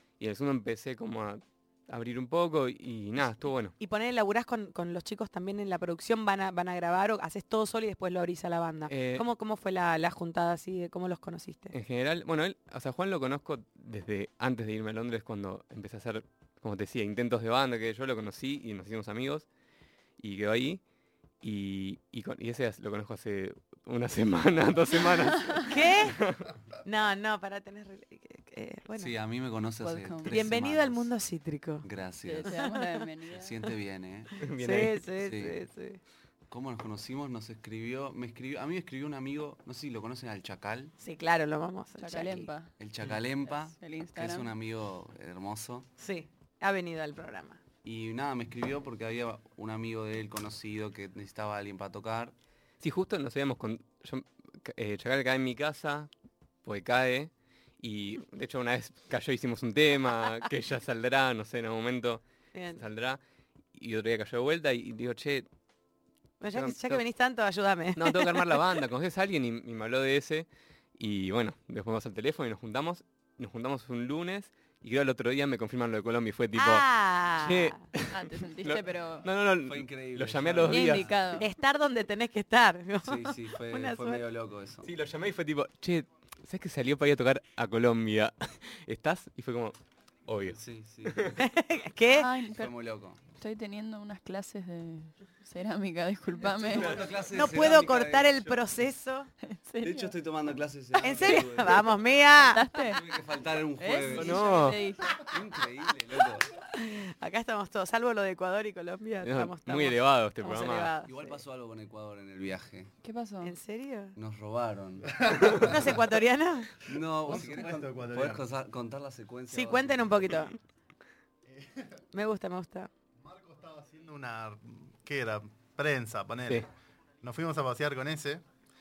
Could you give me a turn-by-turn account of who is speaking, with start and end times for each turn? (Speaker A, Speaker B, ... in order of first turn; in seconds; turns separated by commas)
Speaker A: 0.2-3.7, Speaker B: 3.8-11.8, Speaker A: 8.9-9.3, Speaker A: 11.7-19.5, Speaker A: 20.2-20.8, Speaker A: 21.4-26.5, Speaker B: 25.6-26.2, Speaker B: 26.8-29.1, Speaker C: 29.0-31.1, Speaker D: 29.8-30.4, Speaker B: 30.3-31.9, Speaker C: 31.8-32.5, Speaker D: 32.2-33.6, Speaker B: 32.5-32.8, Speaker C: 33.3-34.3, Speaker A: 34.4-35.0, Speaker B: 34.6-36.0, Speaker C: 35.2-35.6, Speaker C: 36.5-40.9, Speaker B: 41.0-42.5, Speaker D: 42.0-42.7, Speaker C: 42.8-45.9, Speaker D: 43.5-44.5, Speaker B: 46.0-47.6, Speaker C: 47.8-52.3, Speaker A: 52.8-56.1, Speaker A: 56.6-63.2, Speaker B: 62.5-62.8, Speaker A: 63.7-65.5, Speaker B: 66.4-68.6, Speaker A: 66.5-67.0, Speaker A: 68.0-81.1, Speaker B: 76.5-77.8, Speaker D: 78.1-79.3, Speaker C: 79.7-81.2, Speaker D: 80.7-81.5, Speaker B: 80.8-84.2, Speaker C: 83.0-84.9, Speaker A: 84.8-91.4, Speaker C: 90.5-91.4, Speaker B: 91.4-92.3, Speaker D: 92.1-92.7, Speaker C: 92.5-93.2, Speaker D: 93.3-97.1, Speaker C: 96.4-98.3, Speaker A: 96.8-97.7, Speaker B: 97.3-99.3, Speaker D: 99.4-100.2, Speaker C: 99.8-101.9, Speaker B: 101.0-102.6, Speaker D: 101.2-101.7, Speaker D: 102.4-103.0, Speaker C: 102.9-104.6, Speaker D: 103.8-105.0, Speaker A: 104.1-104.8, Speaker C: 105.2-106.5, Speaker B: 106.7-111.4, Speaker A: 109.2-110.9, Speaker C: 111.0-112.9, Speaker D: 113.0-113.6, Speaker B: 113.4-114.2, Speaker C: 114.2-116.0, Speaker E: 115.2-115.7, Speaker B: 115.5-116.7, Speaker C: 116.9-120.4, Speaker E: 117.2-118.4, Speaker B: 119.5-120.6, Speaker B: 122.1-122.9, Speaker E: 123.2-126.7, Speaker E: 127.2-128.4